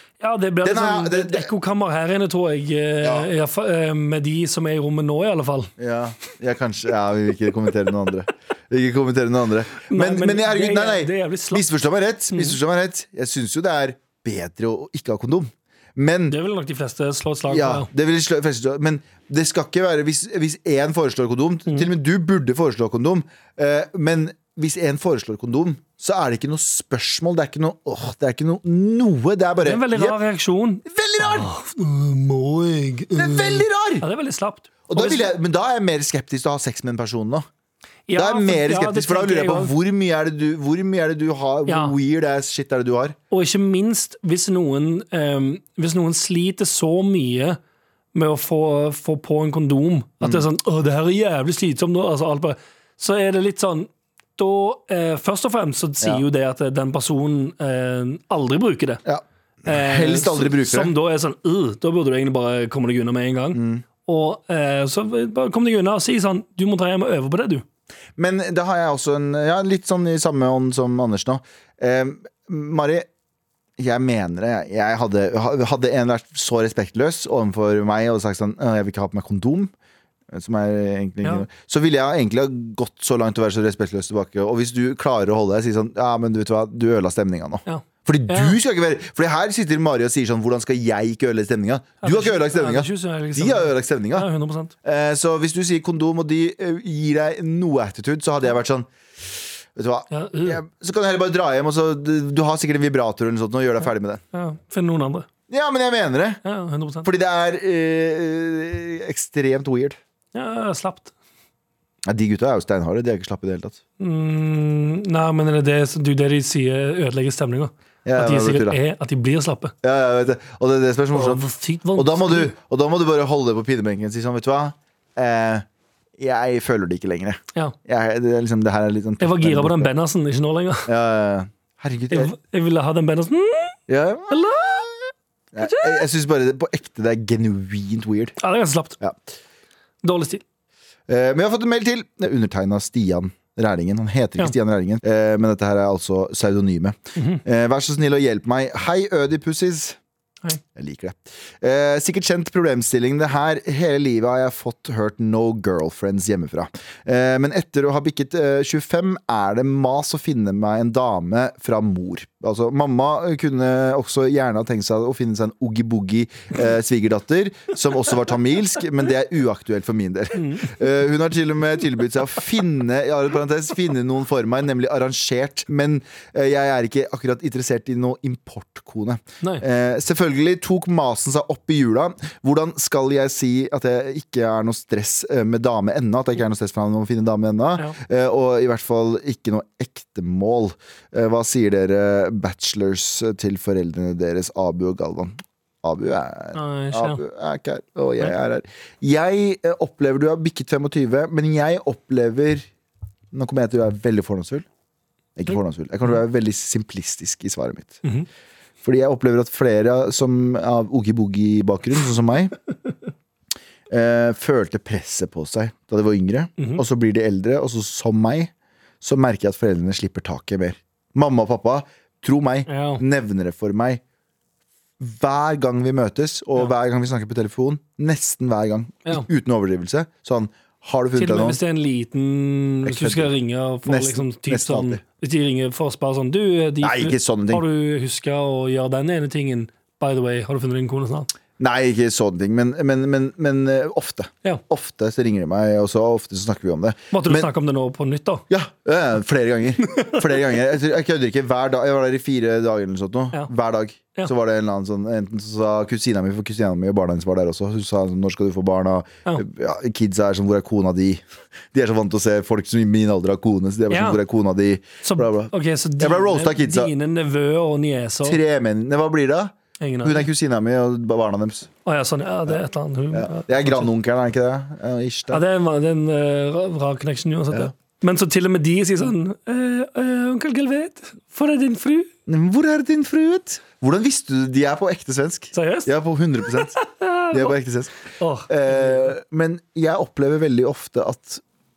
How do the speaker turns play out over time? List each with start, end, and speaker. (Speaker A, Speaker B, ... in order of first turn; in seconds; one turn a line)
Speaker A: 0.2-5.7
Speaker B: 0.6-1.5
Speaker B: 3.0-3.3
Speaker B: 5.8-16.4
Speaker A: 9.9-11.7
Speaker A: 16.3-17.9
Speaker B: 17.5-30.2
Speaker A: 29.6-35.3
Speaker B: 30.9-31.5
Speaker B: 33.1-34.1
Speaker B: 34.9-37.5
Speaker A: 38.1-39.7
Speaker B: 38.1-43.2
Speaker A: 41.7-42.0
Speaker A: 43.3-47.6
Speaker A: 48.1-59.0
Speaker B: 50.2-50.5
Speaker B: 59.0-60.9
Speaker A: 59.7-67.7
Speaker B: 63.5-63.8
Speaker B: 68.2-73.1
Speaker B: 73.8-79.7
Speaker B: 80.3-94.3
Speaker A: 87.7-88.6
Speaker A: 92.0-94.7
Speaker B: 94.8-104.2
Speaker A: 100.1-100.6
Speaker A: 104.3-105.3
Speaker B: 105.5-106.4
Speaker A: 106.4-107.1
Speaker B: 107.0-110.0
Speaker A: 110.3-111.1
Speaker B: 112.1-113.8
Speaker A: 114.0-119.7
Speaker B: 118.0-118.8
Speaker B: 119.8-125.7
Speaker A: 121.1-122.5
Speaker B: 126.2-129.9
Speaker A: 129.2-130.9
Speaker B: 130.9-132.3
Speaker A: 132.1-133.8
Speaker B: 133.9-138.4
Speaker A: 134.3-134.9
Speaker A: 135.6-136.0
Speaker A: 138.4-139.0
Speaker A: 140.0-140.4
Speaker B: 141.1-150.0
Speaker A: 147.2-147.4
Speaker B: 150.8-202.7
Speaker A: 170.4-170.8
Speaker A: 196.5-197.2
Speaker B: 203.3-204.7
Speaker B: 205.4-208.0
Speaker B: 208.8-212.5
Speaker B: 213.9-224.0
Speaker A: 216.6-216.8
Speaker A: 222.7-223.0
Speaker B: 225.0-231.6
Speaker A: 231.2-241.3
Speaker B: 232.8-233.3
Speaker B: 233.8-235.0
Speaker B: 236.8-237.7
Speaker B: 241.6-247.5
Speaker A: 247.1-248.4
Speaker B: 248.5-266.9
Speaker A: 263.9-264.2
Speaker A: 265.0-268.4
Speaker B: 268.2-271.7
Speaker A: 269.8-270.3
Speaker A: 271.9-273.9
Speaker B: 273.1-275.4
Speaker A: 275.3-282.1
Speaker B: 282.3-291.4
Speaker A: 285.5-285.9
Speaker A: 286.5-287.5
Speaker A: 288.2-289.1